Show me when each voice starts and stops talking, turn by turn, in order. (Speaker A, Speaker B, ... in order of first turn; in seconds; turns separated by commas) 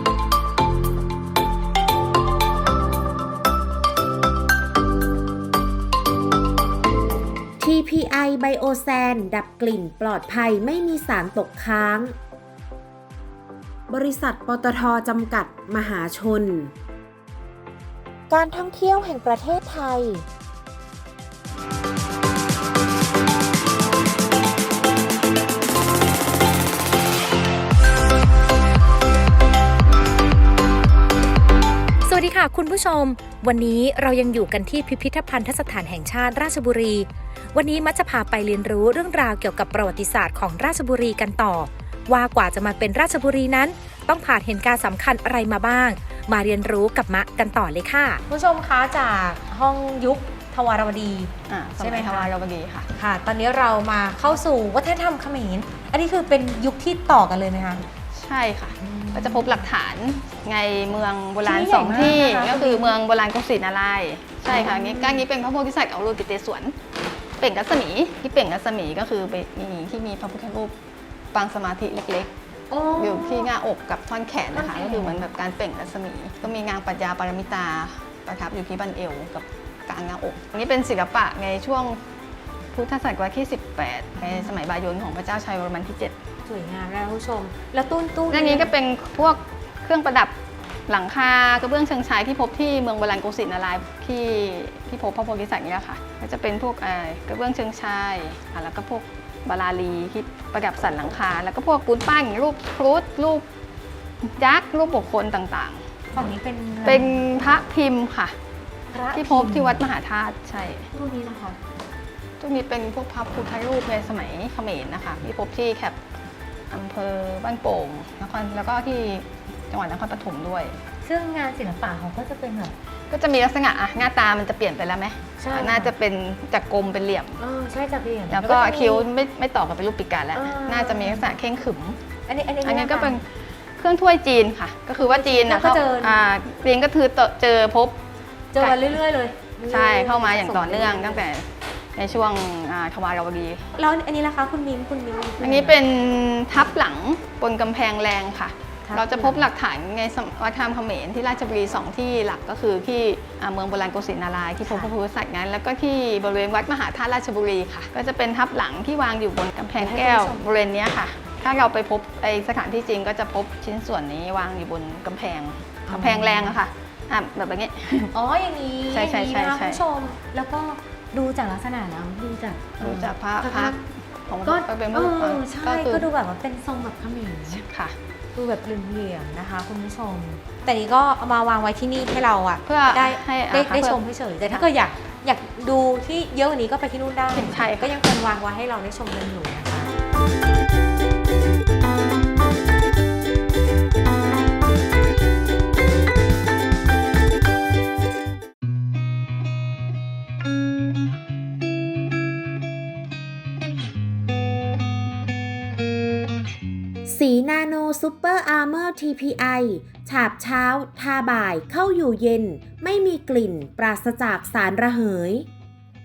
Speaker A: 7.6-12.1, Speaker A: 13.9-16.7, Speaker A: 18.3-20.2, Speaker B: 32.0-52.3, Speaker C: 51.5-52.9, Speaker B: 52.9-57.8, Speaker C: 58.1-66.8, Speaker B: 58.8-59.7, Speaker B: 61.4-63.0, Speaker B: 64.5-65.2, Speaker C: 67.4-70.7, Speaker C: 71.3-72.3, Speaker B: 72.7-73.5, Speaker C: 73.0-82.0, Speaker B: 74.5-75.2, Speaker C: 82.7-86.2, Speaker B: 84.2-84.5, Speaker B: 86.4-88.7, Speaker C: 88.3-90.3, Speaker C: 90.9-103.5, Speaker C: 104.2-105.8, Speaker B: 106.1-107.2, Speaker C: 106.8-108.3, Speaker B: 108.9-109.9, Speaker C: 109.1-110.9, Speaker B: 110.9-111.6, Speaker C: 112.4-116.0, Speaker C: 116.7-120.8, Speaker B: 121.0-122.7, Speaker C: 123.1-127.4, Speaker B: 125.4-125.9, Speaker B: 127.4-129.1, Speaker C: 128.3-132.0, Speaker B: 130.3-131.3, Speaker B: 132.3-133.2, Speaker C: 132.6-138.0, Speaker B: 135.0-136.2, Speaker B: 138.5-141.2, Speaker C: 138.6-138.8, Speaker C: 139.7-143.6, Speaker B: 143.7-145.8, Speaker C: 145.4-168.1, Speaker B: 148.8-149.5, Speaker B: 154.6-154.9, Speaker B: 159.8-160.4, Speaker B: 165.9-166.6, Speaker B: 168.1-173.8, Speaker C: 168.9-169.8, Speaker C: 172.8-176.1, Speaker B: 174.4-177.6, Speaker C: 177.5-177.9, Speaker B: 178.3-189.9, Speaker C: 182.7-184.7, Speaker C: 187.3-188.0, Speaker A: 207.1-215.4